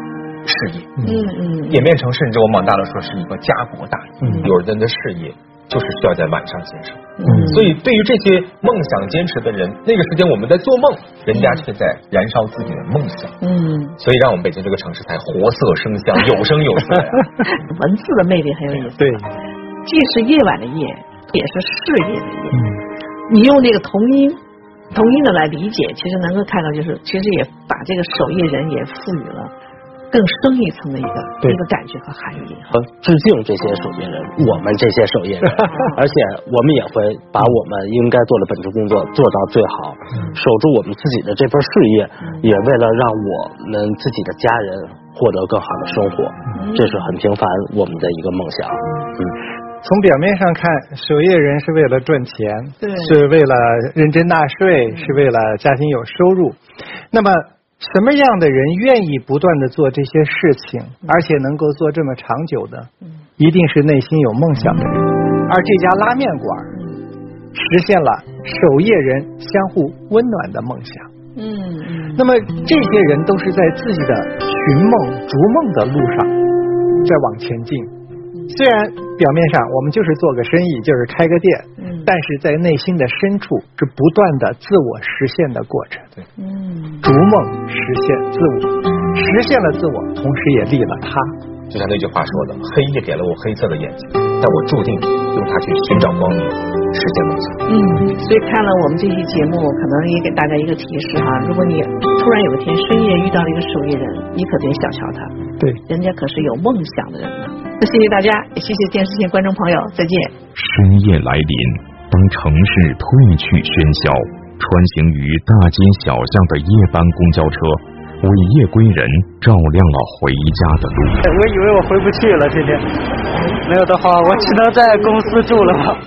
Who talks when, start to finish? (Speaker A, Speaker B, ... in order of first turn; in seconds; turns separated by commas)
Speaker A: 0.4-1.0, Speaker B: 1.0-1.9, Speaker A: 1.7-13.3, Speaker C: 4.2-4.5, Speaker B: 4.3-4.5, Speaker B: 7.2-7.7, Speaker C: 7.3-7.6, Speaker B: 11.3-11.6, Speaker B: 13.4-14.0, Speaker A: 14.0-17.2, Speaker B: 17.5-19.2, Speaker C: 19.0-19.2, Speaker B: 19.8-22.7, Speaker C: 22.5-22.8, Speaker B: 23.3-24.4, Speaker B: 24.9-29.5, Speaker B: 30.1-32.8, Speaker D: 32.7-49.3, Speaker B: 35.6-36.0, Speaker B: 40.1-40.4, Speaker B: 42.2-42.5, Speaker B: 46.5-47.1, Speaker C: 49.8-56.6, Speaker B: 52.8-53.2, Speaker B: 54.9-55.2, Speaker C: 57.1-66.8, Speaker C: 67.5-71.1, Speaker B: 71.3-72.2, Speaker C: 72.2-76.3, Speaker C: 77.0-77.9, Speaker C: 78.5-86.1, Speaker B: 81.8-82.1, Speaker B: 86.4-87.0, Speaker C: 87.0-91.3, Speaker A: 91.7-97.6, Speaker B: 97.7-105.3, Speaker B: 105.9-110.3, Speaker E: 110.5-121.2, Speaker F: 122.1-122.6, Speaker F: 123.7-125.9